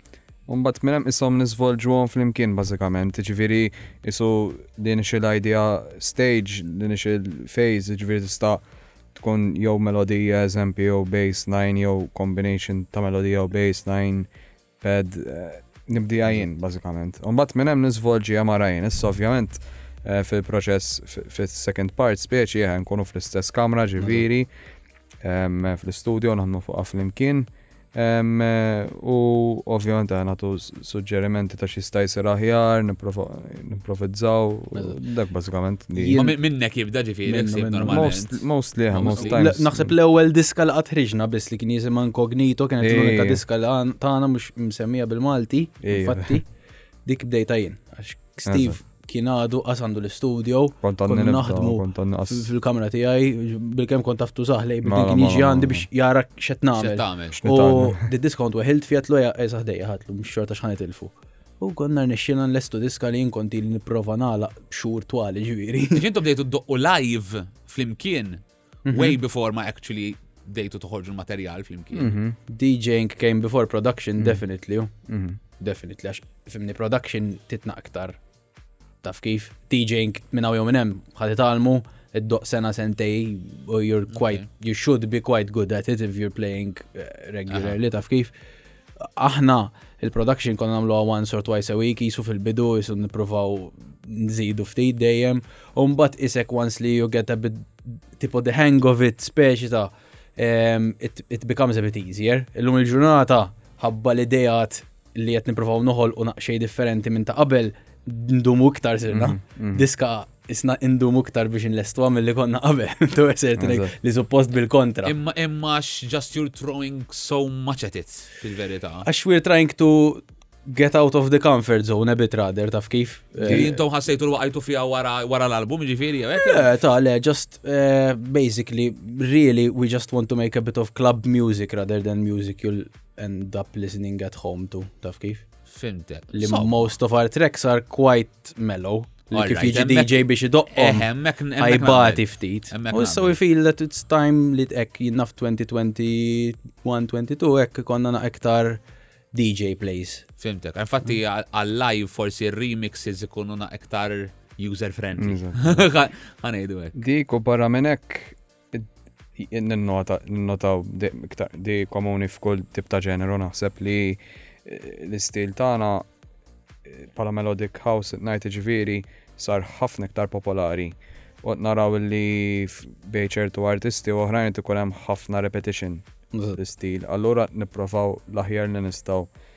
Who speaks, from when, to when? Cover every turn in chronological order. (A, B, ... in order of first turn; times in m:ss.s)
0:00.5-0:08.6 A
0:09.1-0:14.3 A
0:14.8-0:24.5 A
0:25.2-0:36.2 A
0:34.7-0:35.0 B
0:35.9-0:36.4 B
0:36.1-0:38.4 C
0:37.2-0:38.1 B
0:37.8-0:39.9 A
0:38.9-0:39.4 C
0:39.0-0:46.4 B
0:42.8-0:43.4 A
0:45.8-0:46.4 A
0:47.0-1:06.0 B
0:48.4-0:48.8 A
0:50.8-0:52.5 A
0:54.8-0:55.9 A
0:56.8-0:57.4 C
0:57.3-0:58.1 A
1:05.9-1:12.2 C
1:08.8-1:09.2 B
1:11.9-1:12.4 A
1:12.5-1:14.9 B
1:15.1-1:15.4 A
1:15.6-1:18.2 B
1:19.0-1:28.3 B
1:24.1-1:24.4 C
1:27.5-1:27.8 C
1:29.0-1:55.1 B
1:49.1-1:49.8 A
1:53.6-1:53.9 A
1:55.0-1:59.0 C
1:59.0-2:03.8 B
2:03.4-2:06.7 C
2:03.4-2:03.7 A
2:06.4-2:15.4 B
2:15.7-2:16.9 C
2:16.3-2:28.8 B
2:19.3-2:23.4 C
2:29.3-2:30.2 B
2:30.4-2:36.9 C
2:35.2-2:35.9 A
2:36.9-2:46.0 A
2:46.8-2:56.0 A
2:56.3-2:56.6 B
2:56.6-2:59.3 A